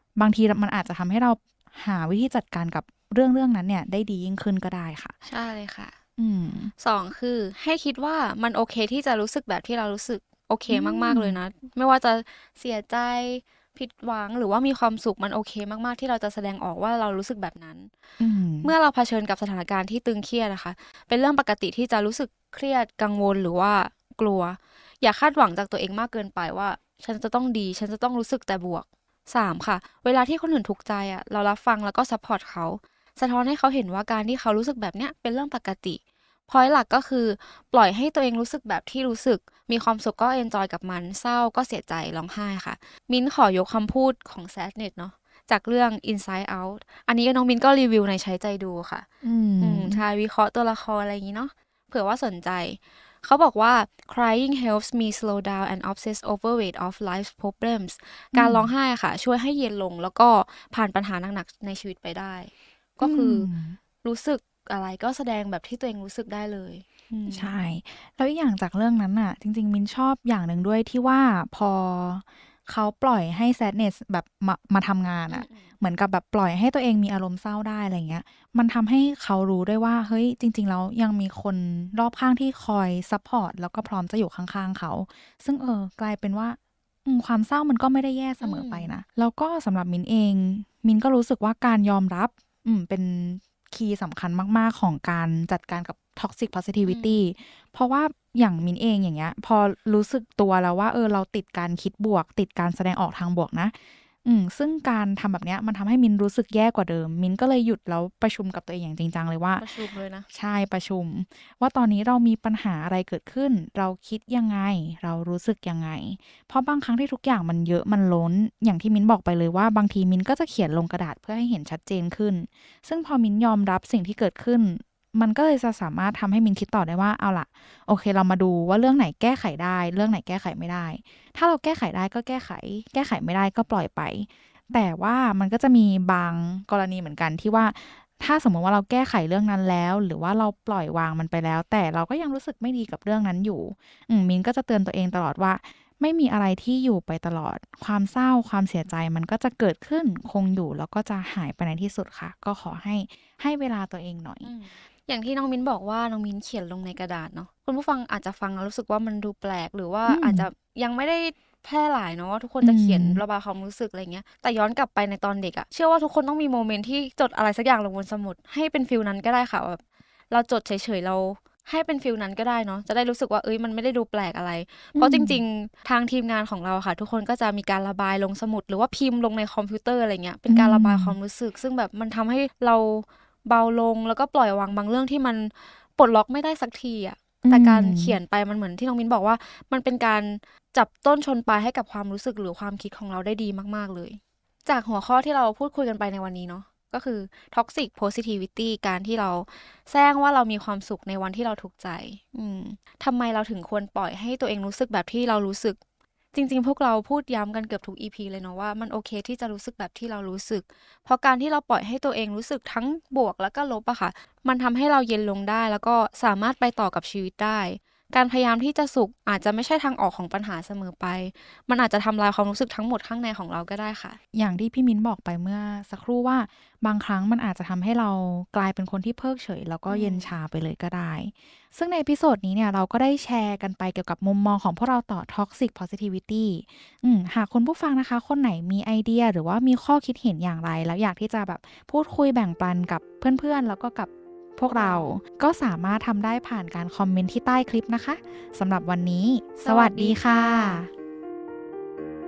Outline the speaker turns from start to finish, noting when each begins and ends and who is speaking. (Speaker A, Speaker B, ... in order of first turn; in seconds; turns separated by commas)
Speaker A: 0.2-5.1, Speaker B: 5.2-5.9, Speaker A: 6.2-6.7, Speaker B: 6.8-17.9, Speaker A: 10.7-11.4, Speaker A: 18.2-18.7, Speaker B: 18.6-49.0, Speaker A: 49.2-50.0, Speaker B: 49.6-63.5, Speaker A: 58.3-58.7, Speaker A: 63.0-63.8, Speaker B: 64.0-67.5, Speaker A: 67.3-154.5, Speaker B: 75.3-75.7, Speaker B: 88.4-88.9, Speaker B: 96.8-97.2, Speaker B: 109.6-110.3, Speaker B: 154.4-205.8, Speaker A: 160.0-160.5, Speaker A: 162.6-163.2, Speaker A: 174.9-175.4, Speaker A: 180.5-181.2, Speaker A: 187.4-188.2, Speaker B: 206.3-224.2, Speaker A: 224.3-250.9, Speaker B: 229.9-230.3, Speaker B: 244.7-245.1, Speaker B: 249.6-250.8